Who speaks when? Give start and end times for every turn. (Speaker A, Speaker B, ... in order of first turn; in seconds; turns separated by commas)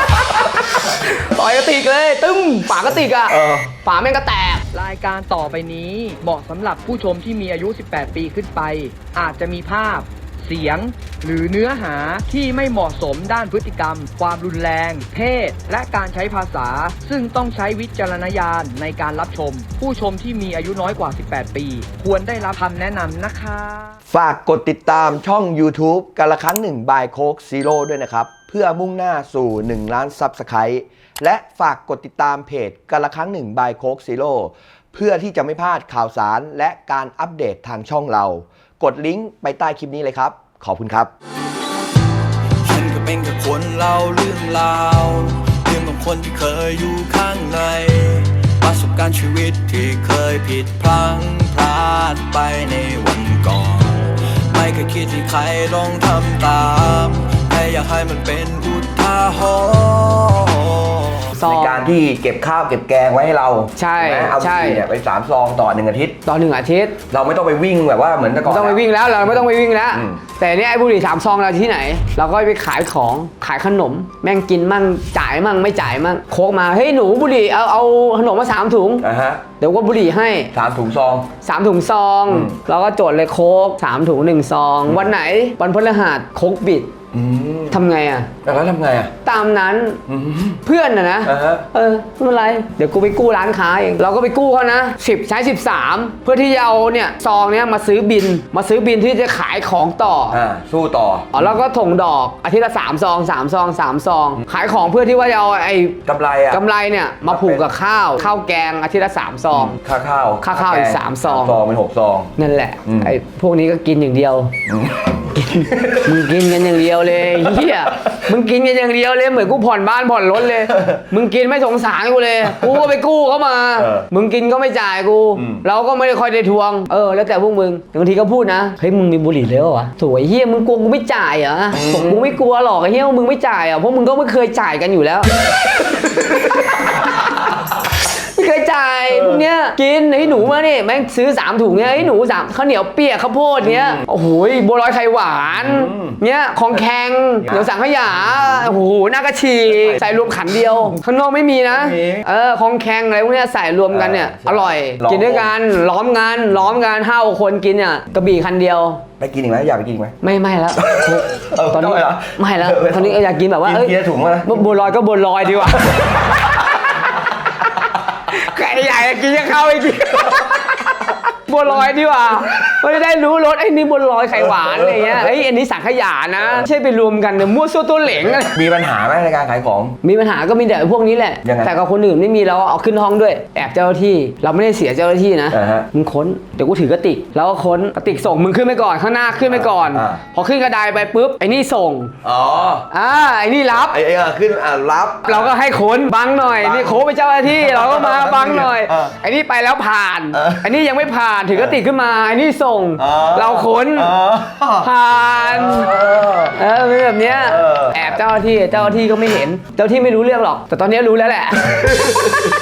Speaker A: 0.3-4.6, Speaker B: 3.3-3.7, Speaker C: 4.7-23.9, Speaker B: 24.1-41.1, Speaker D: 42.6-60.0, Speaker B: 42.7-44.3, Speaker B: 45.7-47.8, Speaker B: 48.6-53.4, Speaker B: 54.6-60.4, Speaker B: 61.3-66.2, Speaker A: 61.3-61.9, Speaker A: 63.8-64.8, Speaker A: 66.2-67.0, Speaker B: 67.1-68.9, Speaker A: 68.5-79.0, Speaker B: 69.9-70.2, Speaker B: 79.0-79.4, Speaker A: 79.6-80.5, Speaker B: 80.5-81.3, Speaker A: 81.4-86.9, Speaker B: 82.3-82.5, Speaker B: 87.1-87.8, Speaker A: 87.7-88.3, Speaker B: 88.4-89.1, Speaker A: 89.2-90.0, Speaker B: 90.1-90.6, Speaker A: 90.6-100.4, Speaker B: 91.2-91.7, Speaker B: 100.3-101.5, Speaker A: 101.3-109.8, Speaker B: 106.0-106.6, Speaker B: 107.3-107.6, Speaker B: 109.5-112.3, Speaker A: 110.4-111.6, Speaker A: 112.4-114.5, Speaker B: 112.8-113.2, Speaker B: 114.7-116.1, Speaker A: 115.3-135.4, Speaker B: 117.3-118.1, Speaker B: 120.7-121.0, Speaker B: 123.8-124.1, Speaker B: 125.3-125.6, Speaker B: 131.7-132.3, Speaker A: 136.7-137.4, Speaker A: 138.0-159.0, Speaker B: 139.1-139.4, Speaker B: 143.6-144.0, Speaker B: 145.6-146.2, Speaker B: 147.4-147.7, Speaker B: 149.8-150.0, Speaker B: 151.7-152.2, Speaker B: 153.9-155.5, Speaker B: 159.2-160.2, Speaker A: 160.2-166.8, Speaker B: 160.8-164.7, Speaker A: 168.3-178.5, Speaker B: 174.3-175.3, Speaker B: 176.4-176.6, Speaker B: 178.2-179.9, Speaker A: 180.0-192.2, Speaker B: 181.4-181.7, Speaker B: 185.5-185.9, Speaker B: 189.5-190.2, Speaker B: 192.2-192.9, Speaker A: 192.9-194.0, Speaker B: 193.8-195.5, Speaker A: 195.3-204.1, Speaker B: 196.6-199.1, Speaker B: 200.3-200.8, Speaker B: 203.0-206.6, Speaker A: 204.8-205.9, Speaker A: 206.5-212.5, Speaker B: 207.2-208.2, Speaker B: 211.8-212.5